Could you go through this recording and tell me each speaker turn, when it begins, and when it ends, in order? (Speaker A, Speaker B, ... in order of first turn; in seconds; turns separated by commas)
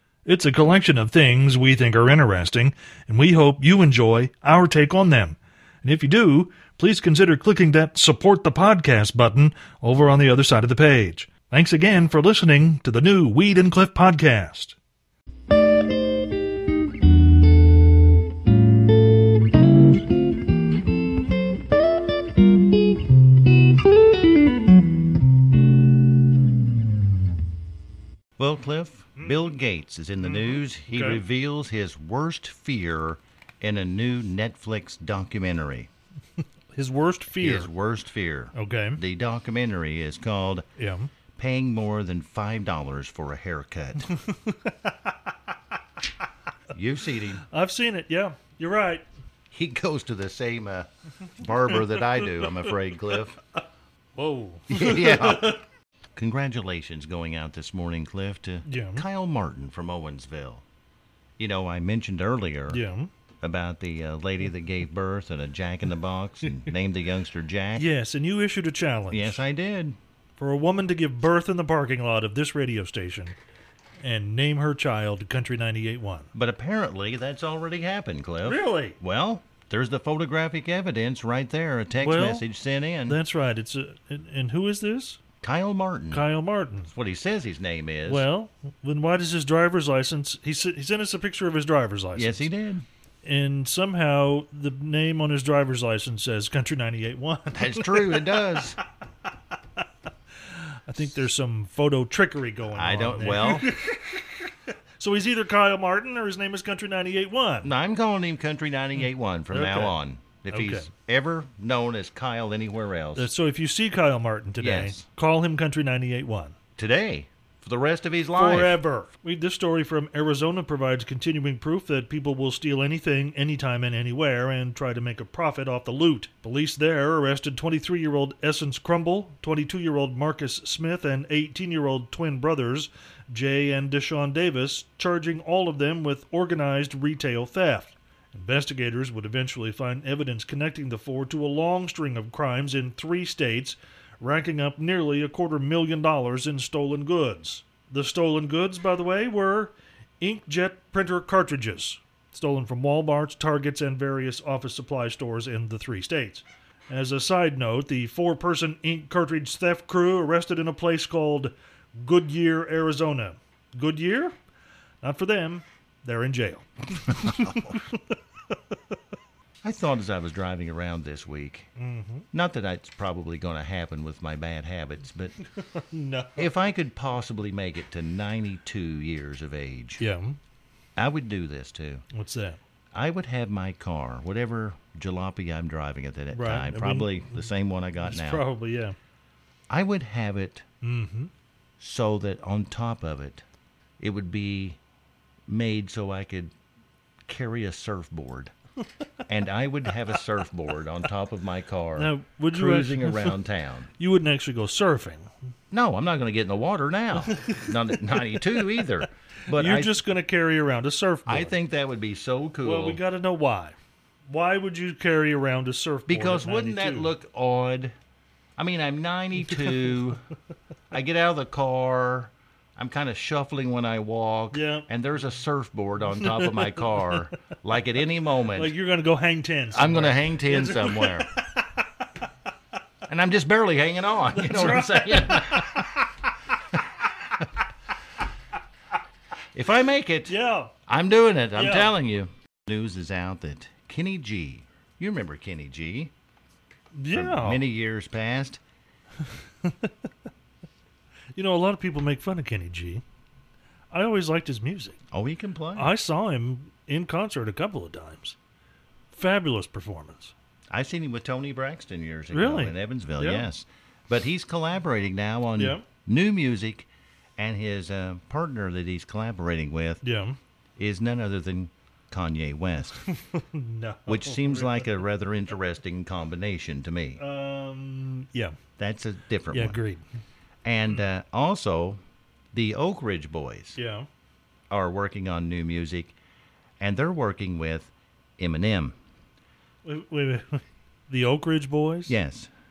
Speaker A: 0.3-14.8, Speaker B: 28.4-35.9, Speaker A: 30.2-31.2, Speaker A: 36.7-37.7, Speaker B: 37.4-40.6, Speaker A: 38.5-39.0, Speaker A: 40.8-41.1, Speaker B: 41.4-44.1, Speaker A: 44.1-45.1, Speaker B: 46.7-47.4, Speaker A: 47.4-49.0, Speaker B: 49.5-53.4, Speaker A: 51.8-52.3, Speaker A: 54.2-55.6, Speaker B: 54.7-55.6, Speaker B: 56.2-60.6, Speaker A: 58.6-59.1, Speaker B: 61.4-62.8, Speaker A: 62.7-63.1, Speaker B: 63.4-67.9, Speaker A: 67.8-69.4, Speaker B: 69.1-70.0, Speaker A: 70.4-73.3, Speaker A: 74.0-76.3, Speaker B: 76.3-83.2, Speaker A: 78.4-79.0, Speaker A: 82.0-82.5, Speaker A: 83.1-85.2, Speaker B: 85.4-86.2, Speaker A: 86.1-86.9, Speaker B: 86.9-88.3, Speaker A: 88.1-92.5, Speaker B: 92.2-92.8, Speaker A: 93.2-98.4, Speaker B: 97.5-98.8, Speaker A: 100.5-107.7, Speaker B: 102.7-103.8, Speaker B: 107.6-113.3, Speaker A: 109.5-110.0, Speaker A: 110.5-110.9, Speaker A: 113.2-116.6, Speaker B: 114.6-115.0, Speaker B: 116.8-118.8, Speaker A: 118.3-164.3, Speaker A: 165.0-168.5, Speaker B: 167.2-167.8, Speaker B: 169.6-171.7, Speaker A: 171.8-172.3, Speaker B: 172.3-175.4, Speaker A: 175.6-176.5, Speaker B: 176.4-180.0, Speaker A: 180.0-180.4, Speaker B: 181.0-182.0, Speaker A: 182.1-182.6, Speaker B: 182.9-188.5, Speaker A: 186.3-187.5, Speaker A: 188.0-189.0, Speaker B: 189.7-190.7, Speaker A: 190.8-191.3, Speaker B: 191.8-193.4, Speaker B: 194.0-194.8, Speaker B: 195.5-196.5, Speaker B: 197.3-198.5, Speaker B: 199.3-203.9, Speaker A: 202.0-203.4, Speaker A: 204.0-205.3, Speaker B: 205.7-210.0, Speaker A: 207.3-211.5, Speaker B: 211.3-213.0, Speaker A: 212.6-213.8, Speaker A: 214.3-217.2, Speaker B: 216.1-217.9, Speaker B: 218.6-220.2, Speaker B: 220.9-228.8, Speaker A: 224.5-224.9, Speaker A: 226.2-227.2, Speaker A: 228.5-232.3, Speaker B: 229.7-231.3, Speaker B: 233.1-236.1, Speaker A: 234.3-235.9, Speaker B: 236.7-237.1, Speaker B: 239.5-240.3, Speaker A: 240.3-240.8, Speaker B: 240.9-246.1, Speaker A: 241.6-241.9, Speaker A: 246.9-247.7, Speaker B: 247.1-248.6, Speaker A: 249.6-249.9, Speaker A: 251.3-253.0, Speaker A: 253.9-255.0, Speaker B: 255.1-255.9, Speaker A: 255.8-258.4, Speaker A: 259.1-260.3, Speaker B: 260.7-270.0, Speaker A: 262.3-263.5, Speaker A: 265.6-265.9, Speaker A: 270.0-270.4, Speaker B: 270.8-273.0, Speaker A: 273.0-275.0, Speaker B: 274.1-277.2, Speaker A: 277.2-278.6, Speaker B: 278.8-279.8, Speaker A: 279.5-280.0, Speaker B: 280.6-282.0, Speaker B: 282.5-283.8, Speaker A: 283.8-284.1, Speaker B: 284.7-286.1, Speaker B: 286.8-288.9, Speaker A: 289.9-292.2, Speaker B: 292.1-292.5